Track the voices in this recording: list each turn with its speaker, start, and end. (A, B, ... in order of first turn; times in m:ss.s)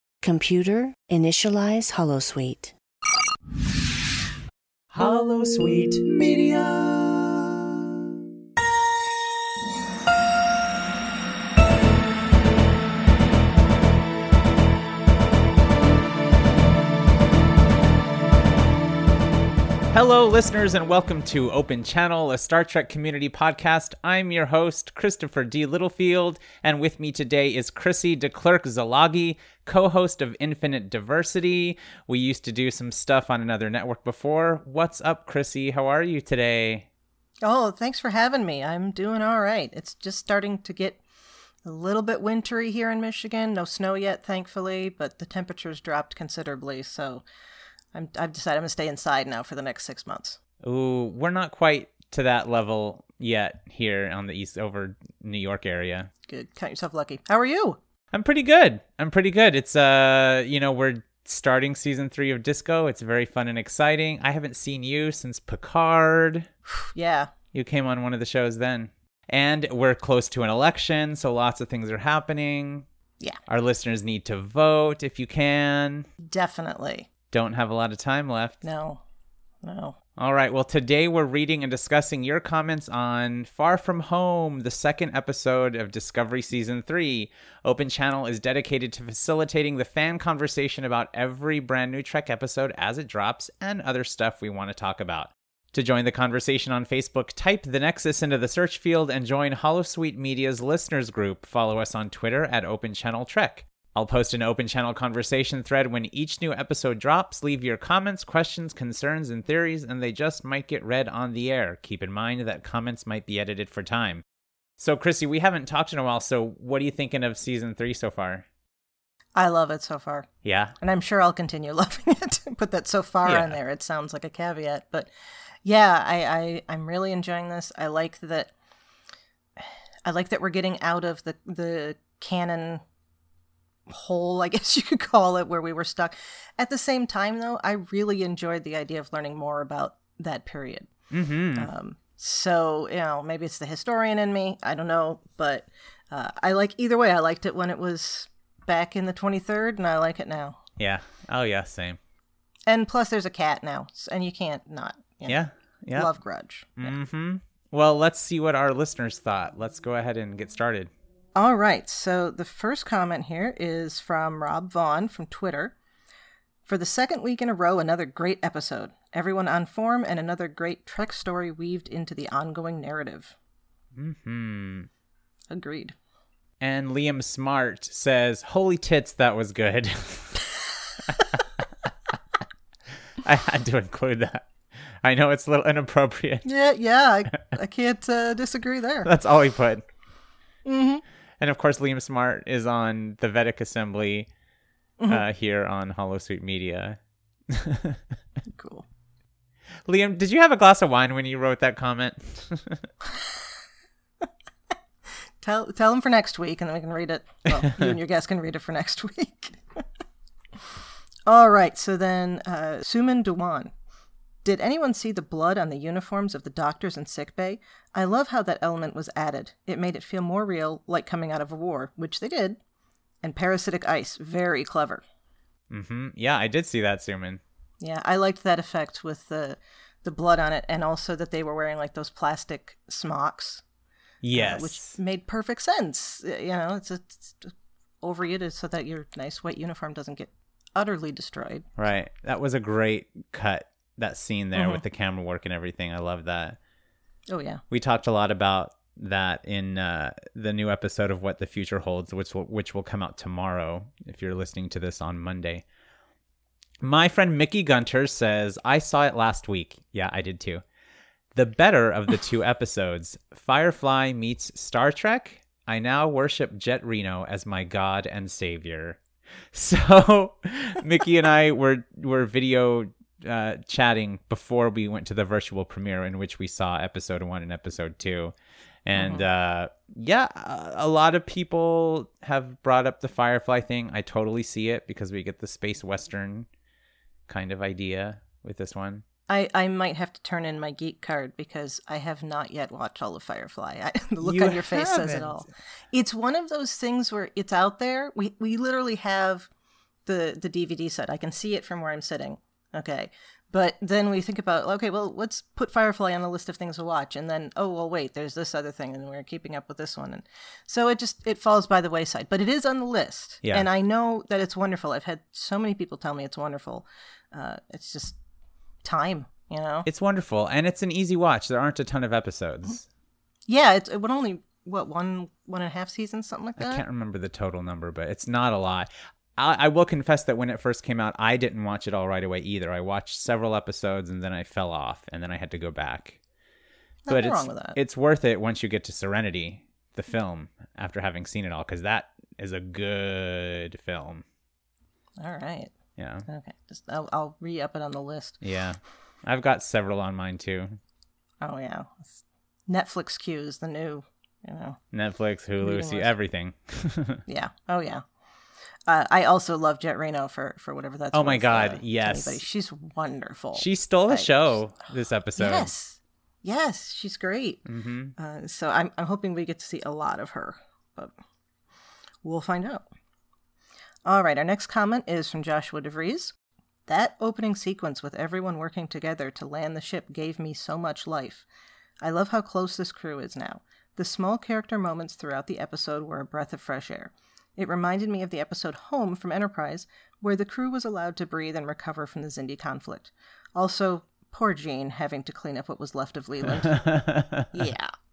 0:00.2-0:02.7 A
0:04.9-0:07.6 B
0:19.9-0:36.9 B
0:37.4-0:41.0 C
0:41.6-0:47.2 C
0:47.9-0:50.4 C
0:50.6-0:56.1 B
0:56.3-0:57.8 C
0:58.1-1:06.5 B
1:06.7-1:07.3 C
1:07.5-1:12.9 B
1:13.5-1:16.1 B
1:16.2-1:17.1 C
1:17.3-1:18.6 B
1:18.6-1:19.0 C
1:19.6-1:20.0 C
1:20.2-1:54.2 B
1:54.8-1:58.4 B
1:59.3-2:00.3 C
2:00.4-2:00.7 B
2:00.8-2:05.1 C
2:03.2-2:03.6 B
2:05.6-2:08.5 C
2:09.6-2:12.8 C
2:13.9-2:20.9 C
2:21.1-2:21.7 B
2:21.5-2:30.6 C
2:30.8-2:32.0 B
2:32.7-2:35.4 C
2:35.2-2:36.1 B
2:35.9-2:37.0 C
2:36.8-2:40.9 B
2:41.3-2:45.7 C
2:46.6-2:53.3 C
2:53.9-2:54.9 B
2:55.5-2:55.9 C
2:56.6-3:00.4 B
3:01.1-3:01.4 B
3:03.2-3:04.5 B
3:05.0-3:06.5 B
3:06.4-3:09.1 C
3:09.0-3:09.8 B
3:10.6-3:11.0 C
3:11.4-3:14.3 B
3:15.1-3:17.0 B
3:17.5-3:18.0 B
3:18.5-3:18.8 C
3:19.9-3:22.9 B
3:23.0-3:23.5 C
3:25.4-3:29.8 C
3:27.6-3:27.9 B
3:31.2-3:33.7 C
3:34.4-3:42.6 C
3:43.2-3:45.0 C
3:45.7-3:47.4 B
3:47.8-3:53.6 C
3:54.2-3:55.0 B
3:54.3-4:01.7 C
4:01.8-4:06.6 B
4:04.5-4:04.8 C
4:07.3-4:07.6 C
4:07.7-4:15.6 B
4:16.8-4:20.6 B
4:21.3-4:29.0 B
4:29.5-4:38.3 B
4:38.8-4:46.5 B
4:38.9-4:39.3 C
4:47.3-4:49.0 B
4:49.3-4:59.5 C
4:54.2-4:55.4 B
5:00.0-5:18.2 C
5:13.4-5:13.7 B
5:18.8-5:19.9 C
5:19.8-5:22.9 B
5:23.5-5:26.8 C
5:26.6-5:36.2 B
5:37.0-5:37.8 C
5:37.1-5:44.2 B
5:45.2-5:45.7 C
5:46.0-5:46.2 B
5:46.3-5:48.4 C
5:48.4-5:50.8 B
5:51.4-5:54.8 C
5:54.9-5:57.2 B
5:55.6-5:56.1 C
5:57.3-5:58.0 C
5:58.9-6:04.6 C
6:01.1-6:02.4 B
6:03.5-6:05.7 B
6:05.4-6:07.6 C
6:07.6-6:08.1 B
6:08.2-6:11.1 C
6:12.2-6:12.9 C
6:14.0-6:16.3 C
6:16.9-6:21.4 C
6:22.0-6:36.8 C
6:36.6-6:37.5 B
6:37.5-6:37.9 C